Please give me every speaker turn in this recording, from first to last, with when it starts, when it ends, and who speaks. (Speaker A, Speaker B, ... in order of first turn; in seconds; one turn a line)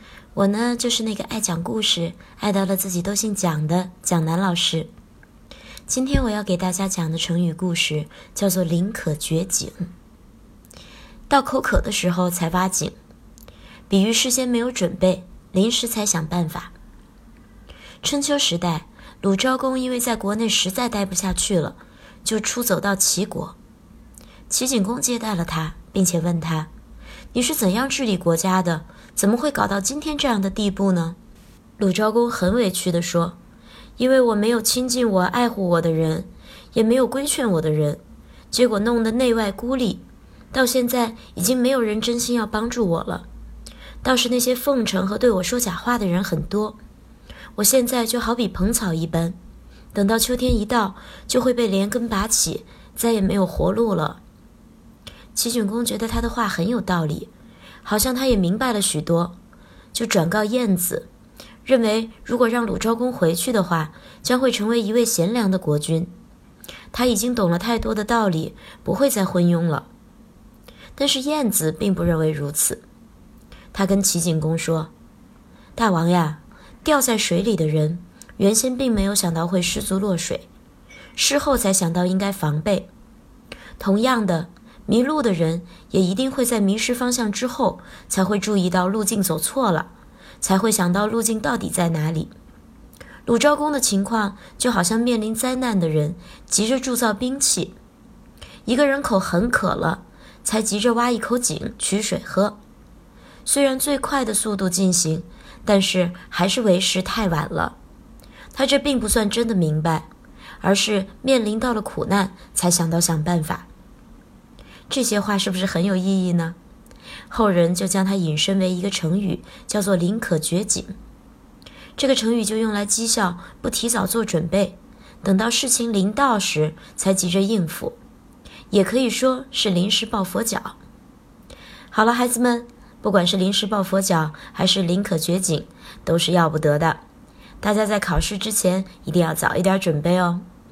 Speaker A: 0.3-4.9
Speaker A: 5.9-9.9
Speaker A: 11.3-13.0
Speaker A: 13.9-16.7
Speaker A: 18.0-23.6
Speaker A: 24.5-26.7
Speaker A: 27.3-31.2
Speaker A: 31.8-33.4
Speaker A: 34.0-38.0
Speaker A: 38.5-43.3
Speaker A: 44.0-46.8
Speaker A: 47.6-49.4
Speaker A: 49.9-54.2
Speaker A: 55.4-57.3
Speaker A: 57.8-59.4
Speaker A: 59.9-61.1
Speaker A: 61.6-66.1
Speaker A: 66.9-69.9
Speaker A: 71.0-72.8
Speaker A: 73.7-74.9
Speaker A: 75.8-80.5
Speaker A: 81.2-82.9
Speaker A: 83.8-89.9
Speaker A: 90.4-92.3
Speaker A: 93.3-97.8
Speaker A: 98.7-102.6
Speaker A: 103.5-107.8
Speaker A: 108.5-110.1
Speaker A: 110.6-113.7
Speaker A: 114.9-116.6
Speaker A: 117.3-121.0
Speaker A: 122.0-128.0
Speaker A: 128.7-130.8
Speaker A: 131.9-137.0
Speaker A: 137.6-140.4